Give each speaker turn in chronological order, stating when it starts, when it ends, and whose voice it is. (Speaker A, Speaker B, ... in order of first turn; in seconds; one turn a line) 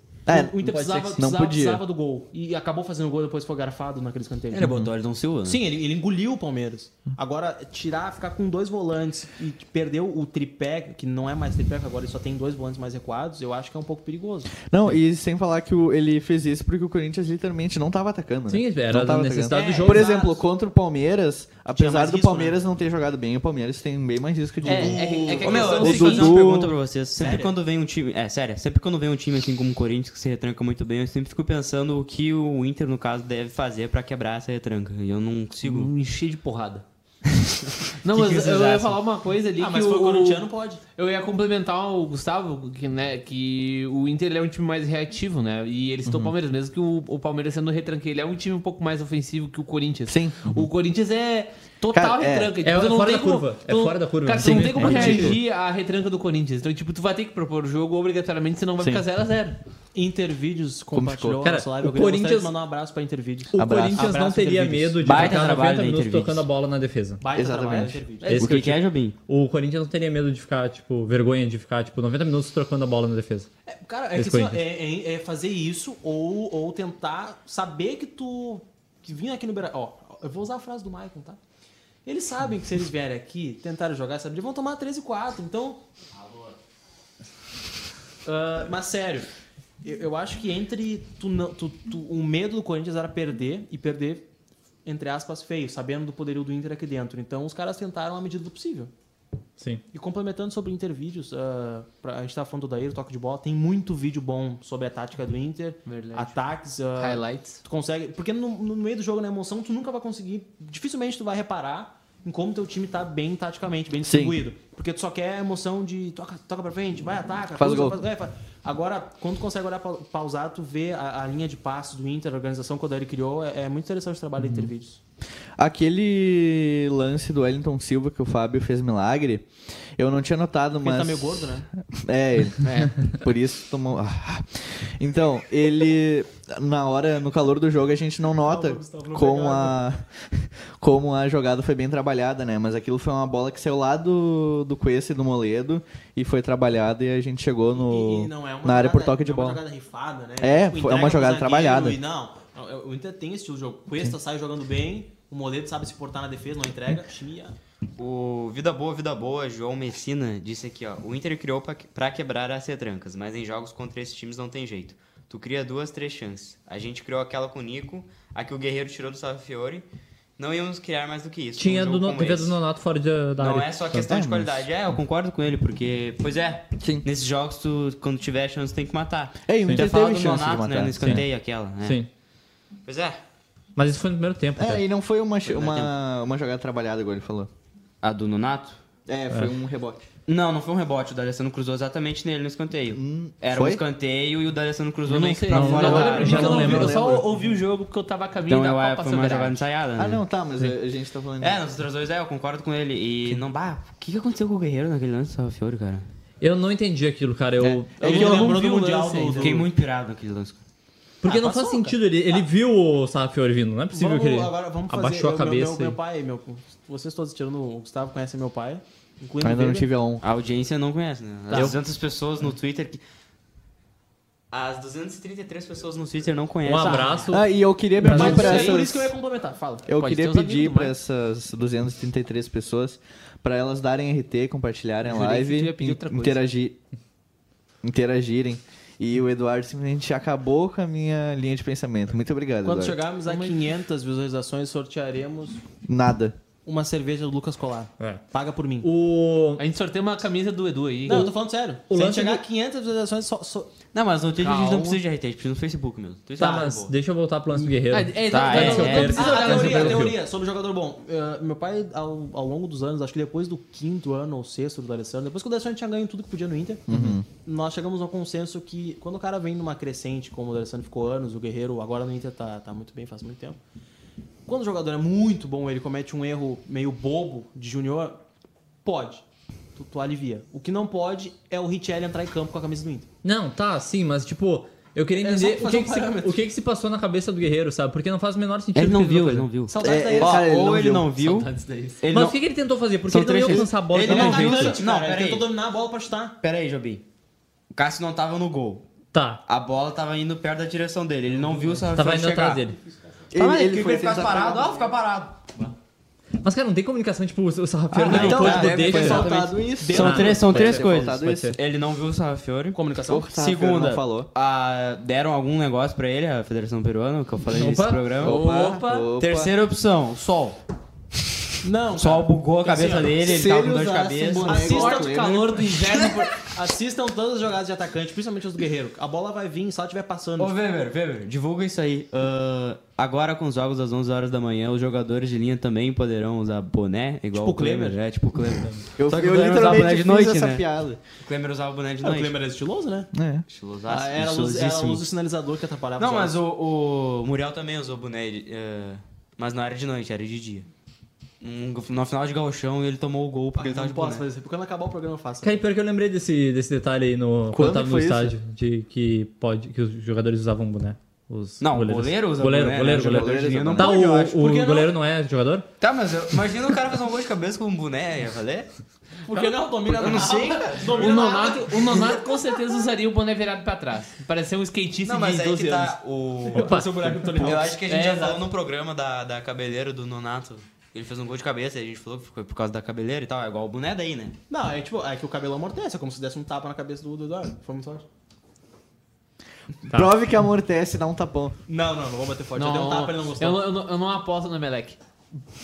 Speaker A: 0.3-1.8
Speaker B: 0.3-4.8
Speaker C: 0.7-1.2
Speaker D: 4.5-5.6
Speaker B: 5.4-14.5
Speaker A: 14.7-26.8
Speaker C: 18.5-20.2
Speaker B: 19.5-20.4
Speaker B: 21.7-22.6
Speaker B: 24.6-26.4
Speaker E: 24.6-26.4
Speaker D: 25.2-35.9
Speaker B: 27.2-27.6
Speaker E: 35.6-36.8
Speaker E: 38.0-59.6
Speaker D: 38.1-39.0
Speaker B: 39.6-40.8
Speaker A: 50.1-50.5
Speaker A: 51.9-52.5
Speaker C: 52.6-55.4
Speaker A: 54.4-55.4
Speaker B: 59.9-65.3
Speaker A: 60.9-61.5
Speaker C: 61.4-62.5
Speaker C: 63.5-67.2
Speaker A: 63.6-64.1
Speaker D: 65.0-66.5
Speaker B: 67.2-68.5
Speaker A: 67.3-68.0
Speaker C: 68.2-73.5
Speaker D: 68.2-69.2
Speaker B: 73.7-81.4
Speaker C: 74.2-74.6
Speaker B: 82.0-85.8
Speaker B: 88.3-89.3
Speaker B: 89.8-94.3
Speaker B: 94.8-98.9
Speaker B: 99.9-125.0
Speaker E: 105.9-106.4
Speaker E: 107.0-107.6
Speaker A: 114.0-114.4
Speaker A: 117.6-118.0
Speaker A: 125.6-149.6
Speaker B: 130.8-131.7
Speaker E: 132.6-132.9
Speaker B: 138.4-139.9
Speaker B: 147.8-157.6
Speaker A: 150.4-152.0
Speaker D: 158.0-169.9
Speaker D: 170.4-172.6
Speaker C: 171.6-174.1
Speaker D: 173.4-182.0
Speaker A: 174.1-174.7
Speaker A: 179.4-181.2
Speaker C: 181.0-181.2
Speaker C: 181.8-182.1
Speaker D: 182.9-183.2
Speaker C: 183.8-184.8
Speaker A: 184.6-187.5
Speaker D: 185.4-185.9
Speaker D: 188.0-188.8
Speaker A: 189.1-190.1
Speaker D: 190.3-196.9
Speaker A: 192.9-193.8
Speaker E: 195.1-199.6
Speaker C: 195.5-197.0
Speaker A: 195.7-197.3
Speaker D: 198.5-200.2
Speaker A: 200.0-201.6
Speaker D: 201.4-206.1
Speaker C: 206.4-208.6
Speaker E: 208.0-209.7
Speaker B: 208.0-209.7
Speaker D: 209.3-210.6
Speaker C: 211.2-216.0
Speaker B: 211.2-212.4
Speaker B: 213.9-219.9
Speaker A: 219.4-220.2
Speaker D: 220.2-223.0
Speaker C: 221.5-221.8
Speaker D: 224.5-227.2
Speaker C: 226.7-228.6
Speaker B: 226.8-227.2
Speaker A: 227.3-229.1
Speaker B: 228.0-229.9
Speaker E: 228.1-228.8
Speaker A: 229.9-236.8
Speaker E: 230.0-231.0
Speaker E: 235.1-236.4
Speaker A: 237.8-243.0
Speaker B: 242.6-245.6
Speaker E: 243.3-243.6
Speaker A: 245.8-246.4
Speaker B: 246.7-248.9
Speaker C: 248.8-249.6
Speaker E: 249.6-251.3
Speaker B: 251.1-253.7
Speaker C: 251.1-251.3
Speaker C: 251.9-252.4
Speaker D: 253.9-256.9
Speaker E: 254.4-255.0
Speaker C: 256.4-260.2
Speaker E: 257.9-260.1
Speaker D: 258.3-259.9
Speaker B: 258.6-273.6
Speaker A: 266.9-267.2
Speaker C: 266.9-267.2
Speaker B: 274.5-278.2
Speaker B: 278.8-279.2
Speaker B: 279.8-283.1
Speaker C: 283.2-289.5
Speaker B: 285.2-286.4
Speaker D: 288.8-292.4
Speaker B: 289.7-290.5
Speaker A: 289.8-291.1
Speaker E: 291.1-292.0
Speaker C: 292.1-294.8
Speaker D: 293.1-295.5
Speaker B: 294.0-296.4
Speaker D: 296.4-297.0
Speaker D: 297.7-298.9
Speaker C: 299.1-299.4
Speaker D: 299.5-302.7
Speaker C: 301.9-302.8
Speaker A: 303.3-304.7
Speaker D: 303.3-305.7
Speaker C: 306.4-309.3
Speaker D: 307.9-312.8
Speaker A: 308.0-311.6
Speaker B: 308.2-310.5
Speaker C: 309.9-311.6
Speaker B: 312.7-313.3
Speaker A: 313.1-314.3
Speaker D: 313.3-318.4
Speaker C: 317.5-318.1
Speaker A: 318.2-319.5
Speaker E: 318.2-319.1
Speaker D: 319.2-320.6
Speaker B: 321.6-323.5
Speaker D: 321.9-324.7
Speaker A: 323.2-325.6
Speaker B: 324.3-330.6
Speaker E: 324.5-326.4
Speaker D: 330.4-342.3
Speaker B: 337.3-338.0
Speaker A: 339.0-341.0
Speaker B: 342.0-343.1
Speaker A: 343.1-343.4
Speaker D: 343.5-345.1
Speaker B: 343.9-346.4
Speaker D: 346.0-350.7
Speaker D: 351.4-354.2
Speaker B: 353.6-355.6
Speaker C: 355.4-365.7
Speaker A: 357.5-358.4
Speaker D: 361.6-364.4
Speaker A: 362.9-364.0
Speaker B: 364.0-364.9
Speaker D: 365.8-368.7
Speaker B: 369.3-372.2
Speaker D: 369.9-371.4
Speaker E: 370.9-376.0
Speaker D: 375.1-384.4
Speaker B: 376.5-377.9
Speaker C: 376.5-377.1
Speaker E: 377.9-378.4
Speaker B: 384.5-388.1
Speaker A: 389.9-391.6
Speaker B: 391.7-393.7
Speaker E: 392.6-395.0